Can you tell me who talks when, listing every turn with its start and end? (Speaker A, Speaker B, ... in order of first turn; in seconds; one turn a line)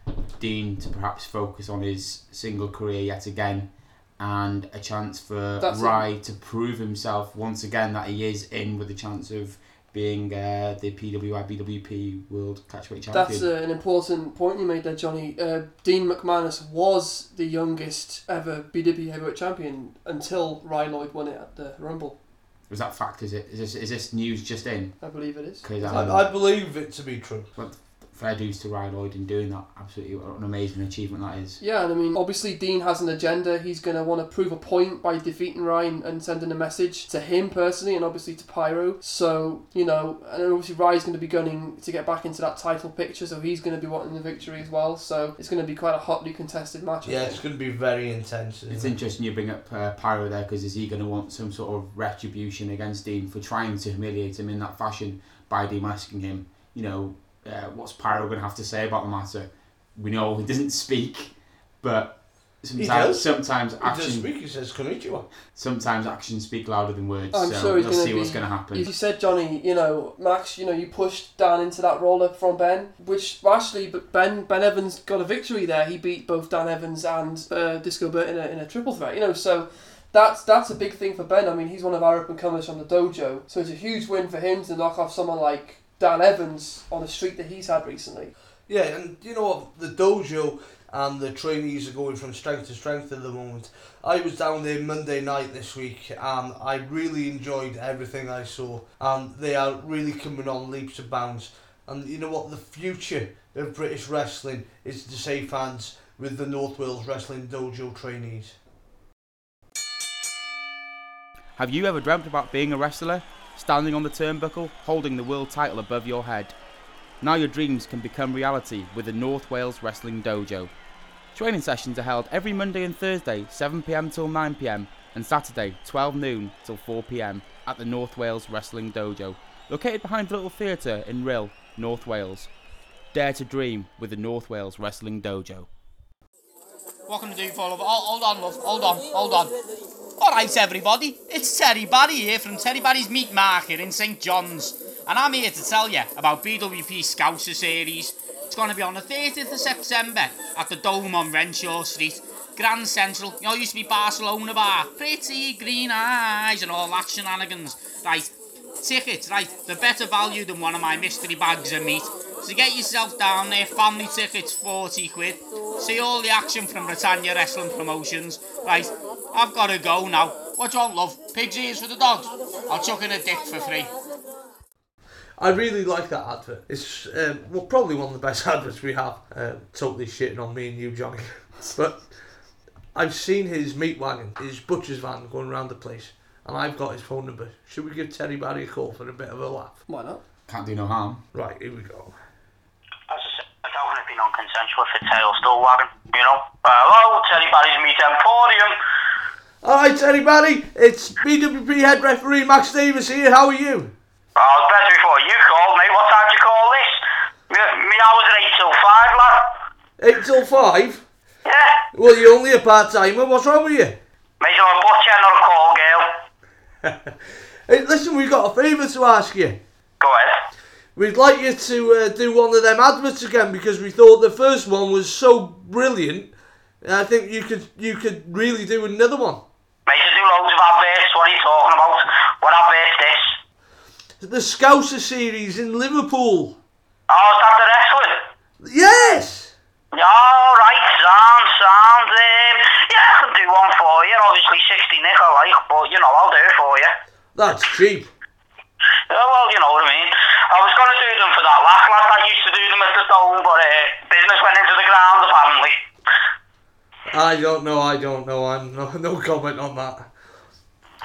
Speaker A: 0.4-13.5
Speaker B: 5.6-6.0
Speaker B: 13.1-22.1
Speaker A: 22.7-25.0
Speaker B: 25.0-26.1
Speaker A: 25.6-26.3
Speaker C: 25.9-27.5
Speaker A: 27.6-31.6
Speaker B: 31.6-47.4
Speaker C: 47.0-49.0
Speaker A: 48.7-64.3
Speaker C: 62.7-65.2
Speaker A: 65.5-68.9
Speaker B: 67.3-88.3
Speaker C: 88.7-108.5
Speaker A: 111.6-116.5
Speaker A: 117.2-120.7
Speaker A: 121.3-132.5
Speaker A: 133.1-135.7
Speaker D: 137.1-139.5
Speaker D: 140.2-173.9
Speaker C: 175.4-189.8
Speaker B: 189.9-190.2
Speaker A: 190.5-191.2
Speaker C: 191.3-192.2
Speaker E: 193.1-198.8
Speaker C: 199.6-203.9
Speaker E: 204.3-209.5
Speaker C: 210.0-211.1
Speaker E: 211.4-211.8
Speaker C: 211.9-214.0
Speaker E: 214.4-216.2
Speaker C: 216.8-219.6
Speaker E: 220.0-220.4
Speaker C: 220.9-229.4
Speaker E: 229.8-233.3
Speaker C: 234.2-236.6
Speaker E: 237.1-238.2
Speaker C: 238.6-239.5
Speaker E: 239.9-246.9
Speaker C: 247.3-248.1
Speaker E: 249.1-255.8
Speaker C: 257.1-260.1